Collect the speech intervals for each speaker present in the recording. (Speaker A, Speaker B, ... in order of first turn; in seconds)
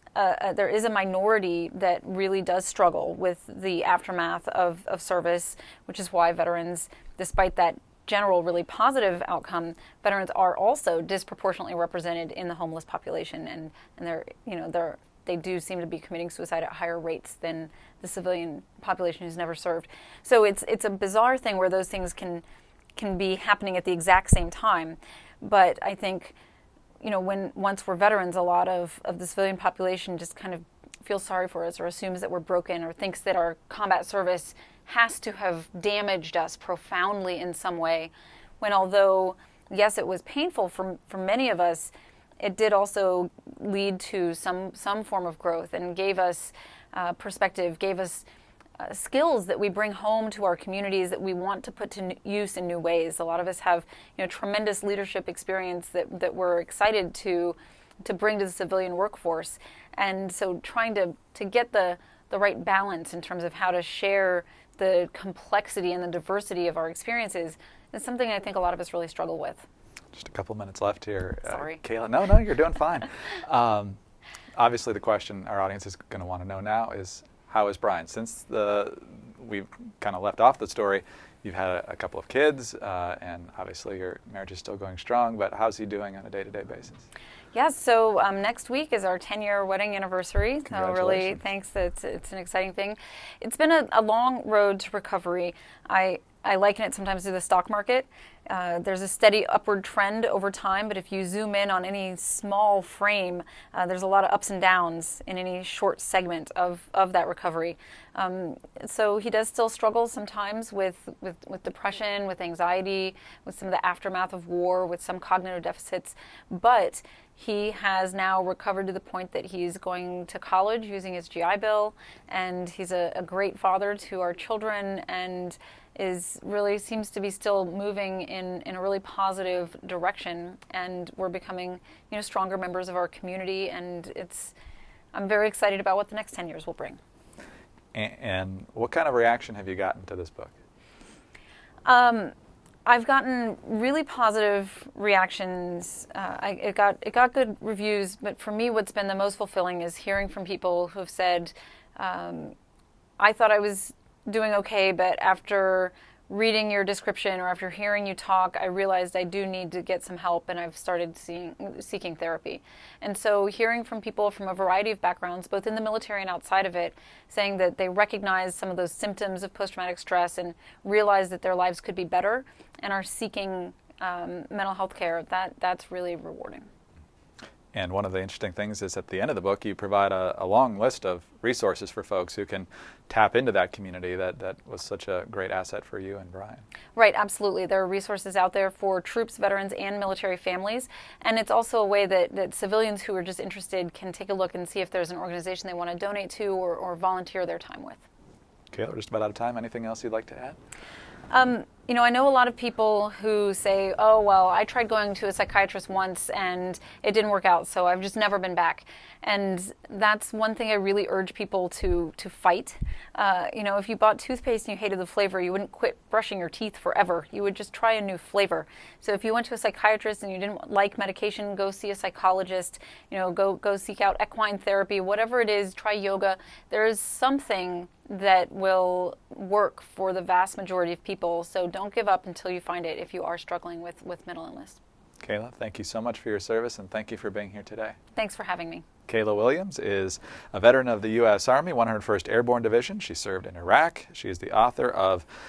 Speaker A: 0.1-22.4, 23.0-26.4, 27.0-48.2, 48.8-69.7, 71.5-71.8, 87.5-134.5, 135.1-137.0, 141.8-142.3, 142.9-152.6, 153.2-176.7, 187.0-198.0, 201.3-234.8, 238.2-238.9
Speaker B: 70.1-74.0, 74.6-87.0, 90.7-91.4, 137.9-140.6, 177.7-186.6, 198.7-200.6, 235.2-238.0, 239.1-245.2